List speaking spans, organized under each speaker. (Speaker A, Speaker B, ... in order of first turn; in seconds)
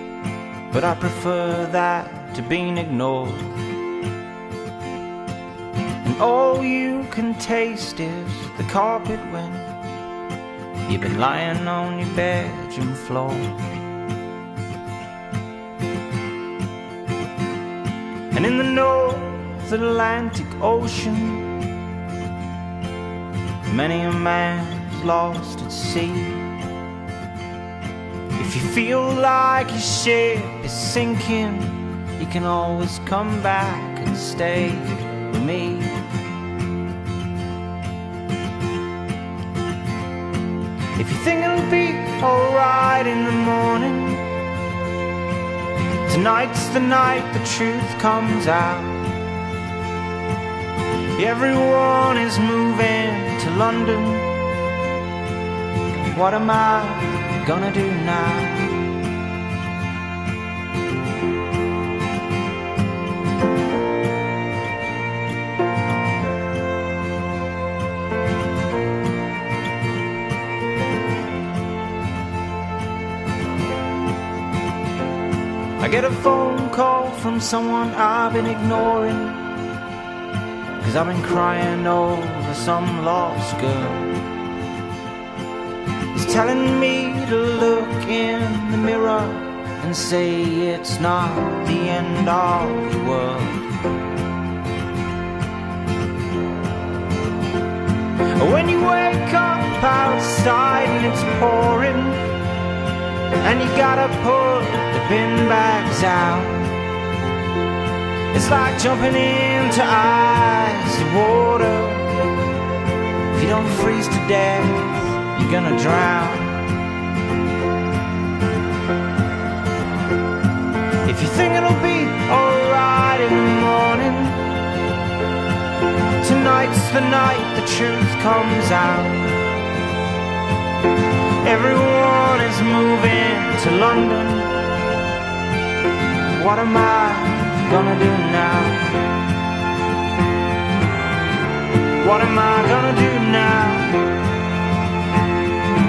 Speaker A: 0.7-3.7, 6.0-9.8, 10.9-13.7, 18.3-21.7, 23.7-26.6, 28.3-36.0, 41.0-44.4, 46.0-49.1, 51.1-54.6, 56.0-58.9, 75.8-79.5, 80.8-84.2, 86.1-93.8, 98.2-102.4, 103.3-106.9, 108.3-112.4, 113.3-116.7, 121.0-124.6, 126.2-129.5, 131.3-134.8, 136.2-139.1, 141.9-144.2